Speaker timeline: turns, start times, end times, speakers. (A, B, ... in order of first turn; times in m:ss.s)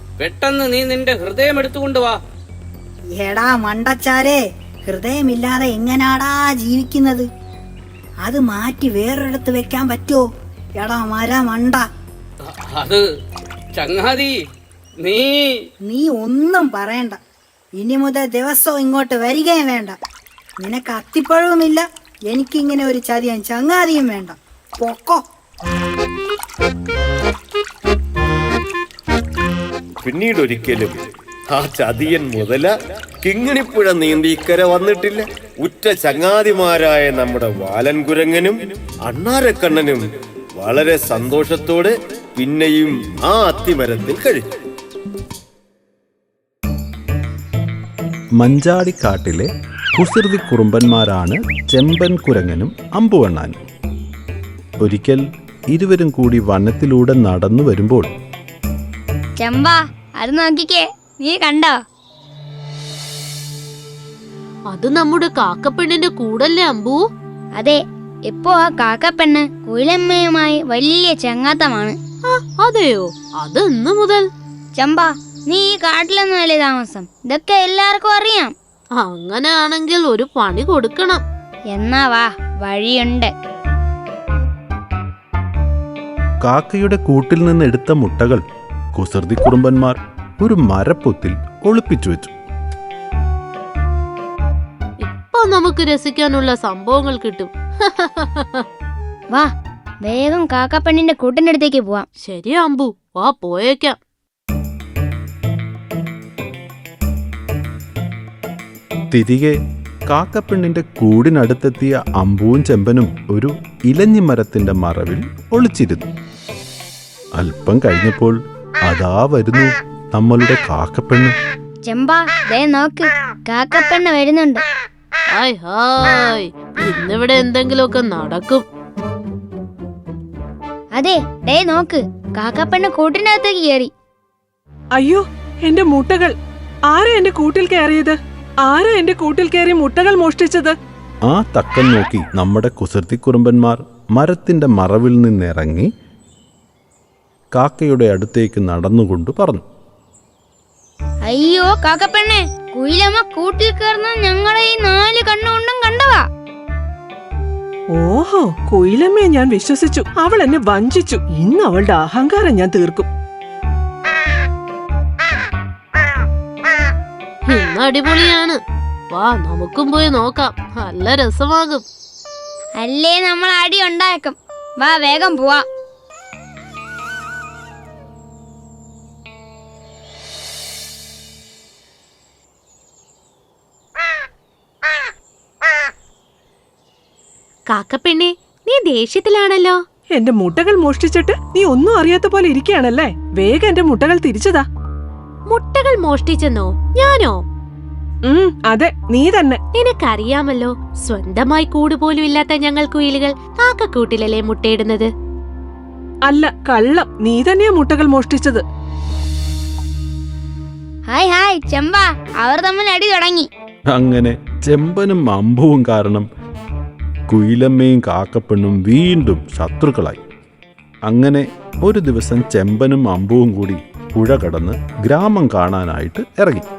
0:00.2-0:02.2 A
0:03.2-0:07.3 B
0:08.2-0:10.2 B
0:10.8-0:11.8 B
0:12.4-0:13.0 A
0:13.8-0:14.3 A
0:15.0-0:15.7 A
0:15.9-0:17.2 B
0:17.8-0:20.0 B
0:20.6-0:25.2 B
0:30.0-0:31.0 C
0:31.5-0:32.7 C
0:33.2-0:40.0 C
0:40.6-0:44.5 C
0:48.4-0:53.6 D
0:54.8-0:58.1 D
0:59.4-1:01.8 E
1:04.7-1:07.0 F
1:07.6-1:12.0 E
1:12.2-1:14.2 F
1:14.8-1:18.5 E
1:19.0-1:21.2 F
1:21.7-1:23.3 E
1:26.4-1:28.4 D
1:28.9-1:32.3 D
1:35.0-1:38.6 F
1:40.0-1:42.0 E
1:42.2-1:44.0 F
1:49.1-1:49.6 D
1:50.1-1:56.1 D
1:57.4-2:01.3 D
2:01.9-2:04.6 E
2:05.3-2:08.6 F
2:11.0-2:13.9 E
2:15.0-2:16.3 G
2:16.9-2:20.8 G
2:21.3-2:25.9 D
2:27.6-2:29.6 D
2:31.2-2:36.2 E
2:37.9-2:43.1 G
2:47.5-2:48.6 F
2:49.1-2:51.8 F
2:52.8-2:55.6 E
3:07.7-3:09.8 F
3:10.1-3:14.6 G
3:15.5-3:17.4 F
3:18.3-3:19.6 G
3:19.7-3:25.1 F
3:26.3-3:28.6 G
3:31.1-3:33.5 E
3:33.9-3:36.3 D
3:37.3-3:40.2 D
3:41.1-3:46.6 D